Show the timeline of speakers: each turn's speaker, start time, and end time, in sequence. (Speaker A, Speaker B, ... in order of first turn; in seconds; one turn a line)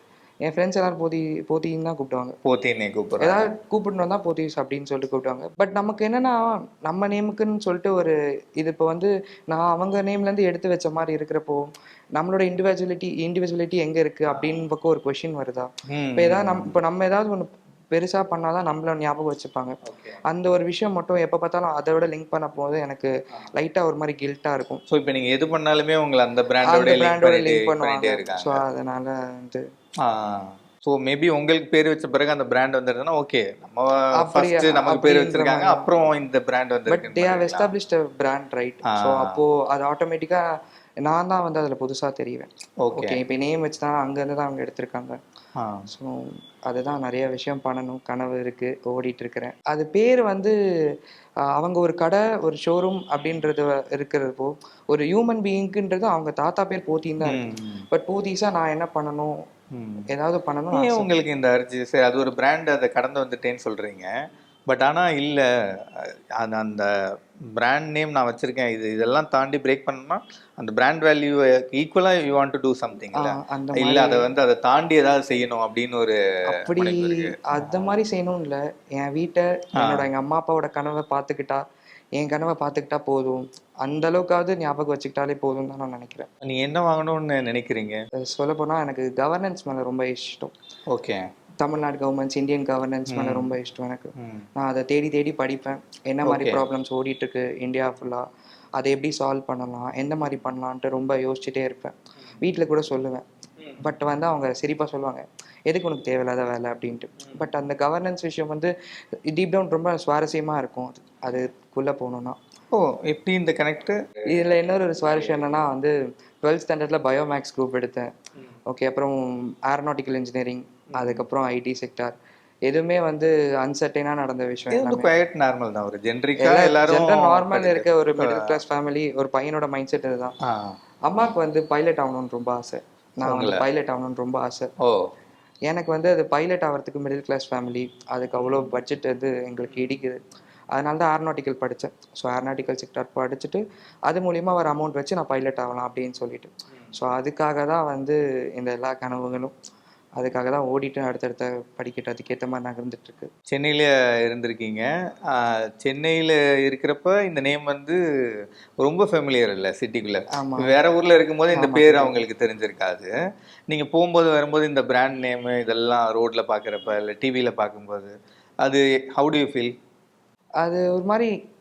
Speaker A: 0.5-2.4
Speaker B: 2.5-3.5
Speaker A: 3.2-19.8
Speaker B: 14.3-14.6
Speaker B: 15.9-16.7
Speaker B: 19.9-20.2
Speaker A: 20.3-24.8
Speaker B: 24.9-28.6
Speaker A: 26.6-29.7
Speaker B: 30.0-37.7
Speaker A: 34.2-35.9
Speaker A: 36.9-40.5
Speaker B: 38.9-39.4
Speaker A: 41.0-45.2
Speaker B: 42.8-43.2
Speaker B: 45.6-45.9
Speaker A: 45.9-50.5
Speaker A: 51.5-59.4
Speaker B: 57.2-57.8
Speaker B: 59.8-60.1
Speaker A: 60.1-61.1
Speaker B: 60.7-64.1
Speaker B: 64.7-66.9
Speaker B: 67.6-77.9
Speaker A: 73.1-74.3
Speaker A: 76.5-81.6
Speaker B: 79.8-80.1
Speaker A: 82.2-86.3
Speaker B: 86.4-88.0
Speaker A: 88.2-90.5
Speaker B: 90.9-91.2
Speaker A: 91.6-98.2
Speaker B: 93.1-93.5
Speaker B: 94.2-94.5
Speaker B: 96.3-96.6
Speaker A: 98.8-103.2
Speaker A: 103.8-108.7
Speaker A: 109.3-112.4
Speaker B: 112.7-114.0
Speaker A: 114.3-118.1
Speaker A: 118.7-122.2
Speaker A: 122.7-125.1
Speaker B: 124.7-128.4
Speaker A: 126.4-130.4
Speaker B: 130.4-130.8
Speaker A: 131.1-134.7
Speaker B: 133.2-133.7
Speaker B: 134.8-135.1
Speaker A: 135.7-140.2
Speaker A: 140.7-149.5
Speaker A: 150.2-153.3
Speaker B: 153.5-158.0
Speaker B: 158.8-163.1
Speaker A: 160.3-160.8
Speaker A: 161.5-162.2
Speaker B: 163.7-169.7
Speaker A: 170.6-171.3